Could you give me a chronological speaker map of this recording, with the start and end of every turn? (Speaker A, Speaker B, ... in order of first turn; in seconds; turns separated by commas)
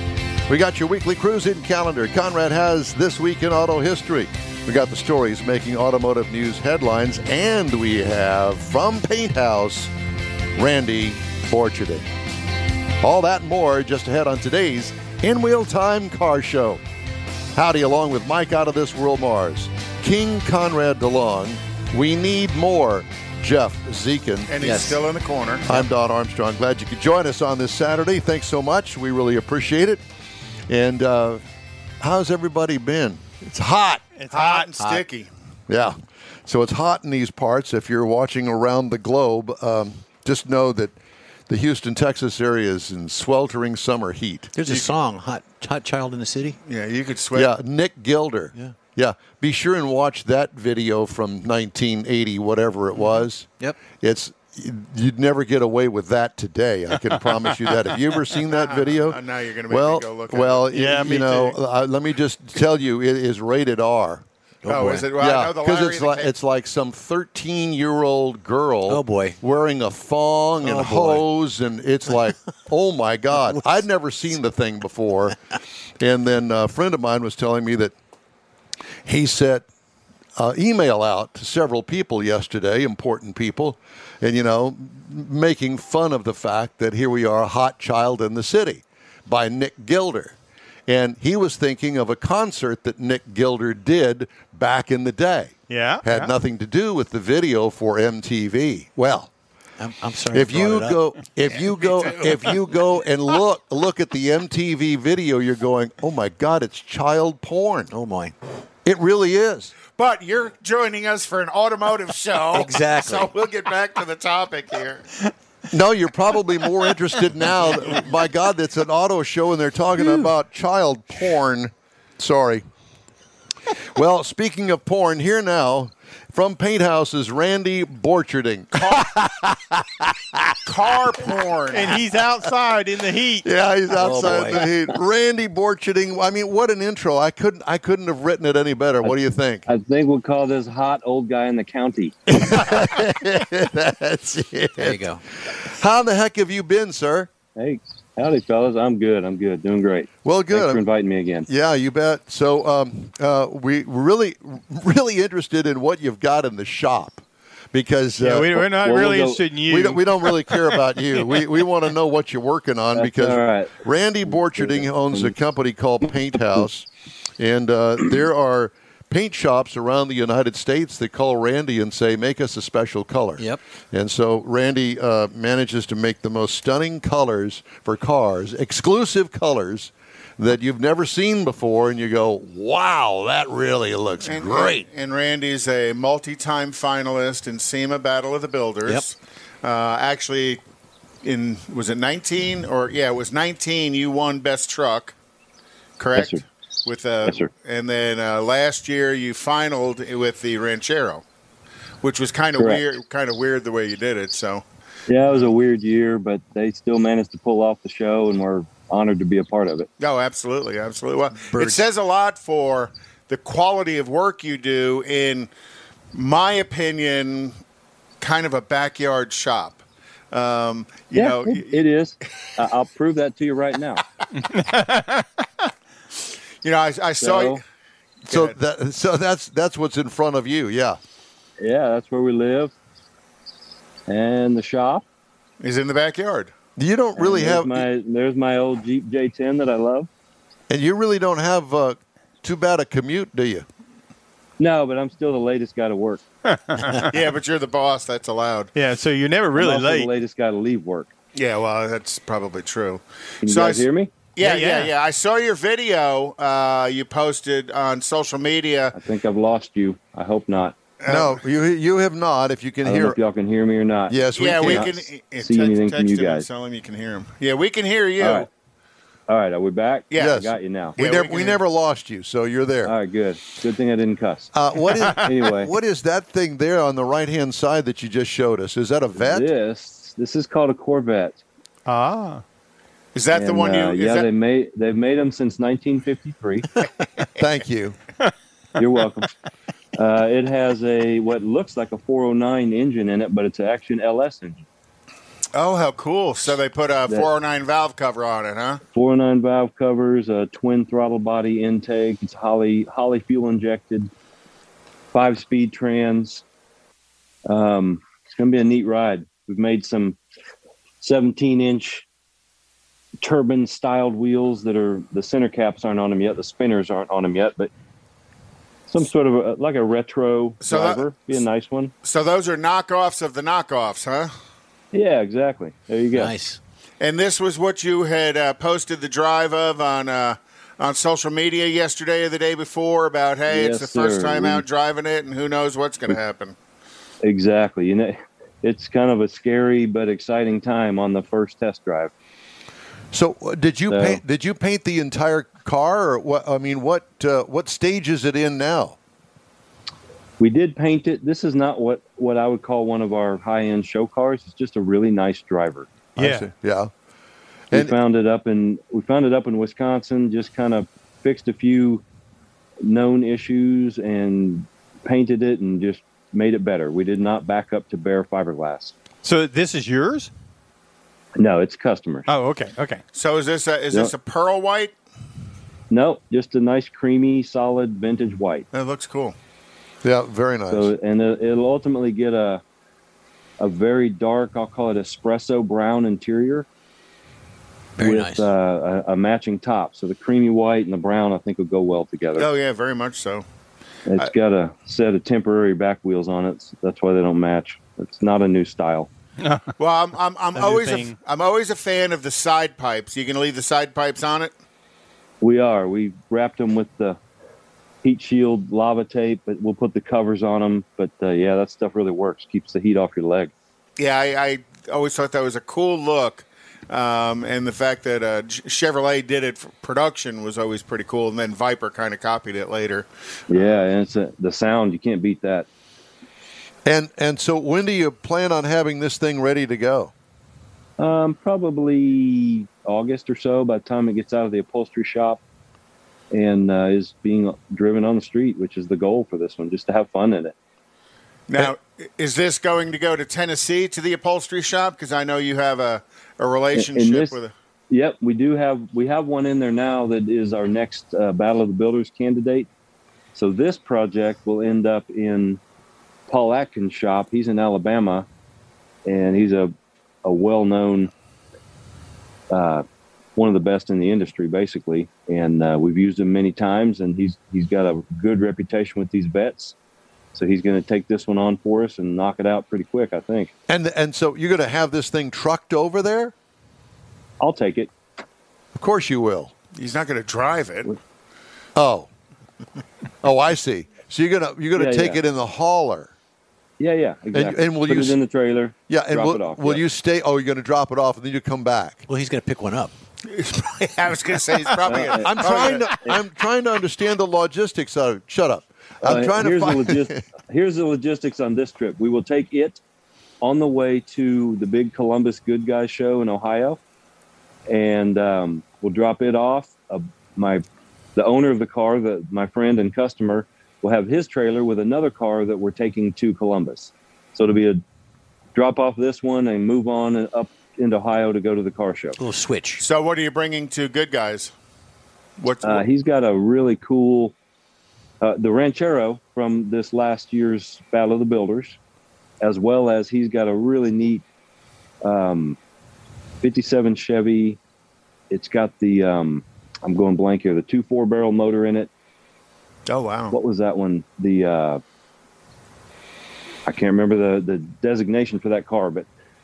Speaker A: 0.5-9.9, Speaker A: 10.5-12.1, Speaker A: 13.0-16.8, Speaker A: 17.5-24.5, Speaker B: 24.5-25.7, Speaker C: 24.6-25.0, Speaker A: 25.7-30.0, Speaker A: 30.7-31.4, Speaker A: 32.0-34.0, Speaker D: 34.2-34.7, Speaker B: 34.3-35.3, Speaker A: 35.7-40.9, Speaker A: 41.5-44.5, Speaker C: 44.5-46.6, Speaker B: 44.7-44.9, Speaker B: 46.7-47.5, Speaker A: 47.3-59.2, Speaker C: 53.0-53.8, Speaker B: 58.5-60.7, Speaker A: 59.7-64.2, Speaker D: 60.7-61.5, Speaker C: 64.6-65.1, Speaker B: 64.7-66.3, Speaker A: 65.1-75.4, Speaker C: 68.9-69.4, Speaker C: 70.6-71.2, Speaker A: 76.0-77.9, Speaker A: 79.0-79.7, Speaker A: 80.4-90.3, Speaker A: 90.9-99.3, Speaker D: 95.7-96.3, Speaker C: 99.8-101.0, Speaker A: 100.3-107.9, Speaker B: 101.9-102.3, Speaker C: 107.9-108.3, Speaker A: 108.8-109.7, Speaker B: 110.0-115.1, Speaker C: 112.5-113.3, Speaker A: 115.7-122.7, Speaker A: 124.0-130.6, Speaker B: 128.8-129.2, Speaker B: 130.6-132.0, Speaker D: 131.7-133.5, Speaker A: 133.4-139.7, Speaker C: 134.0-134.7, Speaker E: 139.7-142.2, Speaker A: 142.3-147.3, Speaker C: 144.8-145.2, Speaker E: 147.6-151.5, Speaker A: 150.2-150.8, Speaker A: 151.5-158.7, Speaker D: 158.2-160.7, Speaker E: 158.6-159.5, Speaker A: 159.7-166.9, Speaker E: 162.9-163.7, Speaker E: 164.3-165.3, Speaker A: 167.4-184.9, Speaker B: 184.2-190.6, Speaker B: 191.2-195.2, Speaker B: 196.0-201.2, Speaker E: 196.2-196.4, Speaker E: 197.2-197.5, Speaker B: 202.0-204.6, Speaker E: 205.1-209.9, Speaker B: 210.0-215.5, Speaker B: 216.1-217.6, Speaker B: 218.2-219.8, Speaker B: 220.3-221.7, Speaker E: 221.1-224.0, Speaker D: 224.3-225.7, Speaker B: 226.6-227.6, Speaker E: 227.2-227.6, Speaker B: 228.3-228.6, Speaker A: 228.3-231.0, Speaker E: 231.6-232.7, Speaker E: 234.1-235.1, Speaker B: 235.6-236.5, Speaker A: 236.8-237.9, Speaker E: 237.2-240.1, Speaker A: 240.7-243.7, Speaker E: 244.6-246.2, Speaker D: 246.5-247.2, Speaker B: 247.1-248.7, Speaker D: 248.8-250.1, Speaker E: 249.6-251.1, Speaker B: 251.3-258.9, Speaker E: 253.4-254.1, Speaker D: 254.4-254.9, Speaker E: 258.9-260.8, Speaker B: 261.0-261.4, Speaker A: 261.1-263.2, Speaker E: 262.8-266.5, Speaker A: 264.1-265.0, Speaker B: 264.4-268.5, Speaker E: 268.2-268.5, Speaker E: 269.3-271.0, Speaker B: 270.1-270.4, Speaker A: 270.2-272.9, Speaker B: 271.0-271.6, Speaker E: 272.8-274.5, Speaker A: 274.5-279.5, Speaker D: 274.9-275.3, Speaker E: 275.2-275.7, Speaker E: 279.2-281.4, Speaker D: 281.9-282.4, Speaker B: 283.1-284.3, Speaker E: 283.3-286.7, Speaker A: 287.4-288.0, Speaker E: 288.8-289.3, Speaker E: 290.0-294.6, Speaker B: 295.6-298.8, Speaker E: 298.9-304.1, Speaker E: 305.1-306.4, Speaker E: 307.5-310.2, Speaker E: 311.0-312.1, Speaker E: 313.2-317.7, Speaker E: 318.9-321.9, Speaker B: 320.6-321.0, Speaker B: 322.0-324.3, Speaker E: 324.9-326.3, Speaker C: 326.1-326.6, Speaker B: 327.0-336.6, Speaker E: 333.5-334.6, Speaker E: 337.2-342.1, Speaker A: 343.1-349.0, Speaker E: 343.9-344.2, Speaker E: 350.4-355.9, Speaker A: 356.2-356.9, Speaker D: 356.2-356.5, Speaker E: 357.7-362.0, Speaker E: 362.8-368.9, Speaker D: 369.2-370.3, Speaker E: 371.4-372.3, Speaker D: 372.3-373.0, Speaker B: 373.1-374.9, Speaker E: 375.9-378.7, Speaker B: 378.7-379.4, Speaker A: 380.0-380.9, Speaker E: 380.7-382.6, Speaker E: 383.6-386.7, Speaker C: 388.0-388.5, Speaker E: 388.0-392.5, Speaker B: 392.4-393.4, Speaker E: 394.1-399.1, Speaker D: 399.4-399.7, Speaker B: 399.8-404.5, Speaker D: 400.6-401.1, Speaker E: 405.4-407.2, Speaker E: 408.0-413.5, Speaker B: 414.0-423.1, Speaker E: 423.5-425.7, Speaker A: 426.9-430.1, Speaker E: 431.0-435.4, Speaker E: 436.3-440.6, Speaker B: 441.5-447.5, Speaker E: 446.7-447.4, Speaker E: 447.9-452.7, Speaker E: 453.4-455.6, Speaker E: 456.3-458.3, Speaker E: 459.1-459.7, Speaker E: 460.2-461.1, Speaker E: 462.5-462.9, Speaker E: 463.4-469.8, Speaker E: 470.3-473.5, Speaker A: 473.7-476.3, Speaker E: 477.4-477.9, Speaker A: 478.8-479.5, Speaker B: 479.8-480.9, Speaker A: 481.8-482.1, Speaker A: 483.2-486.1, Speaker E: 484.8-485.2, Speaker E: 486.8-489.9, Speaker A: 487.3-488.2, Speaker A: 488.9-492.1, Speaker C: 492.1-492.9, Speaker B: 493.3-496.0, Speaker E: 494.9-495.4, Speaker A: 495.2-500.2, Speaker E: 499.0-502.8, Speaker E: 503.4-506.8, Speaker E: 507.7-510.6, Speaker E: 511.2-517.8, Speaker E: 518.5-522.2, Speaker C: 522.2-522.8, Speaker B: 522.8-524.5, Speaker B: 525.4-525.9, Speaker E: 525.6-527.4, Speaker E: 528.2-531.8, Speaker E: 532.4-534.2, Speaker E: 535.0-535.6, Speaker E: 536.4-537.6, Speaker E: 538.3-541.9, Speaker B: 542.9-543.4, Speaker E: 543.3-544.8, Speaker E: 546.7-549.1